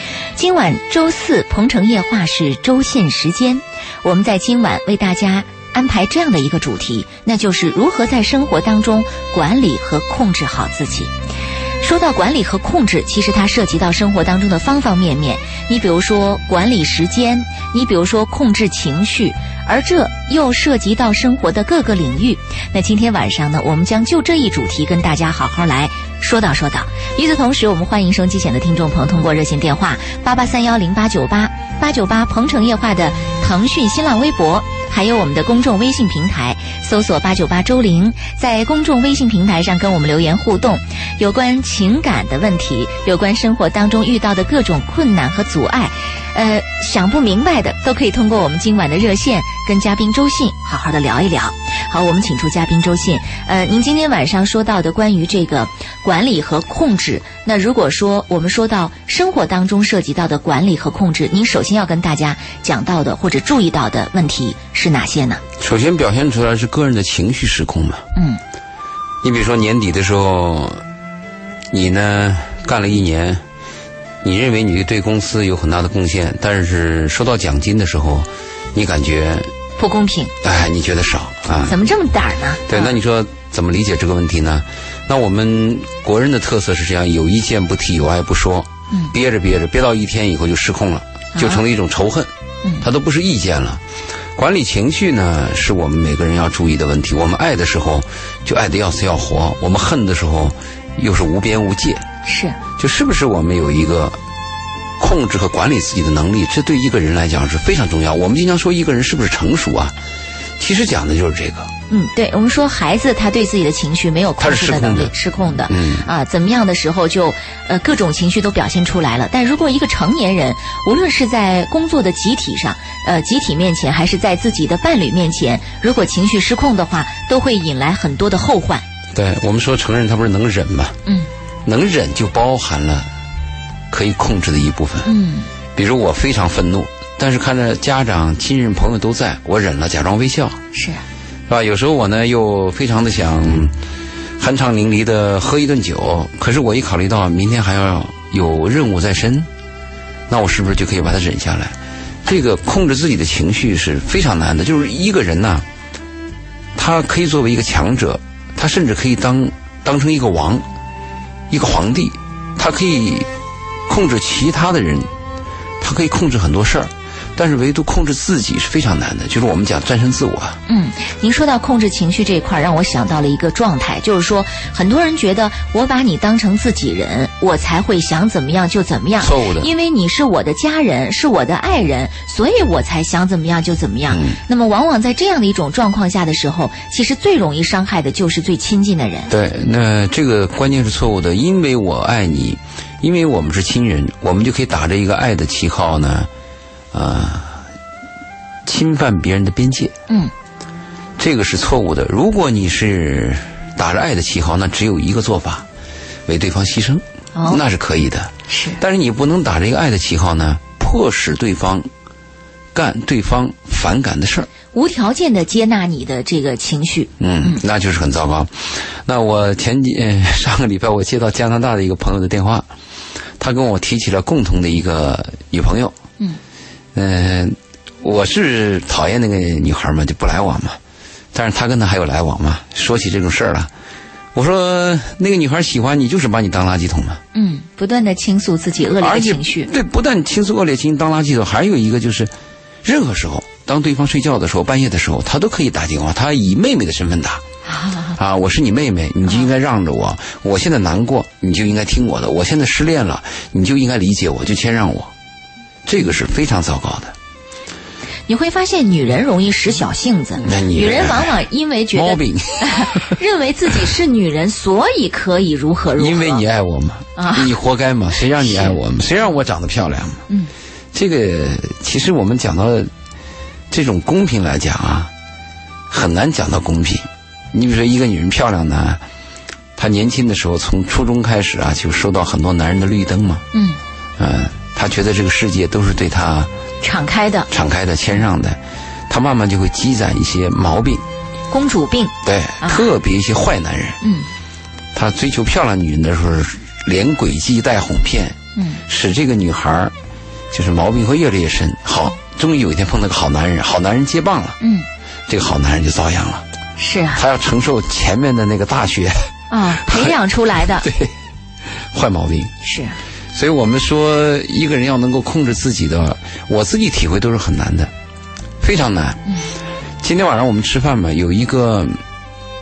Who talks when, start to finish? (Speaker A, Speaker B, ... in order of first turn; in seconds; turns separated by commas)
Speaker A: 0.3-11.1, Speaker A: 11.8-65.4, Speaker B: 65.6-68.0, Speaker A: 68.1-68.4, Speaker B: 69.2-70.8, Speaker B: 71.7-73.4, Speaker B: 74.2-79.5, Speaker A: 79.8-80.3, Speaker B: 80.4-81.8, Speaker A: 81.7-83.0, Speaker B: 82.7-92.3, Speaker A: 91.3-91.6, Speaker B: 92.8-93.8, Speaker B: 94.3-102.0, Speaker A: 102.2-102.6, Speaker B: 102.8-104.2, Speaker B: 105.0-109.9, Speaker B: 110.6-111.7, Speaker A: 111.9-128.8, Speaker B: 114.4-116.0, Speaker B: 129.1-131.0, Speaker B: 131.7-133.1, Speaker B: 133.9-135.1, Speaker A: 135.0-135.5, Speaker B: 135.7-140.6, Speaker A: 140.7-141.0, Speaker B: 141.5-143.7, Speaker B: 144.4-149.5, Speaker B: 150.3-155.7, Speaker B: 156.8-160.7, Speaker B: 161.5-163.3, Speaker B: 163.9-165.1, Speaker B: 165.8-170.6, Speaker A: 170.7-189.3, Speaker B: 179.2-179.7, Speaker B: 184.1-184.4, Speaker B: 189.3-196.3, Speaker B: 196.9-197.6, Speaker B: 198.7-199.9, Speaker B: 201.2-205.7, Speaker B: 206.3-211.9, Speaker A: 207.3-207.6, Speaker A: 208.5-208.8, Speaker B: 212.7-214.5, Speaker A: 214.7-217.6, Speaker B: 217.2-222.7, Speaker B: 223.4-225.9, Speaker B: 226.9-230.8, Speaker B: 231.3-233.7, Speaker B: 234.3-237.2, Speaker A: 237.3-239.7, Speaker B: 239.0-242.3, Speaker B: 242.8-247.4, Speaker A: 247.7-248.2, Speaker B: 248.2-255.1, Speaker B: 255.8-257.1, Speaker A: 258.3-266.4, Speaker B: 260.4-261.3, Speaker B: 261.9-263.1, Speaker B: 266.0-270.2, Speaker A: 267.2-267.5, Speaker A: 268.4-268.8, Speaker B: 270.9-272.9, Speaker B: 273.7-275.1, Speaker B: 275.9-279.0, Speaker B: 279.8-283.4, Speaker A: 283.5-283.8, Speaker B: 284.2-286.5, Speaker A: 286.8-287.5, Speaker B: 287.5-291.0, Speaker A: 291.5-292.9, Speaker B: 292.2-294.0, Speaker A: 294.0-294.3, Speaker B: 294.9-299.9, Speaker A: 298.6-298.8, Speaker B: 300.5-304.6, Speaker A: 304.6-304.9, Speaker B: 305.3-306.4, Speaker A: 306.8-307.2, Speaker B: 307.1-310.1, Speaker A: 309.5-310.9, Speaker B: 310.8-311.1, Speaker B: 311.9-312.5, Speaker A: 312.6-313.0, Speaker B: 313.3-317.9, Speaker B: 318.6-319.2, Speaker B: 320.0-322.0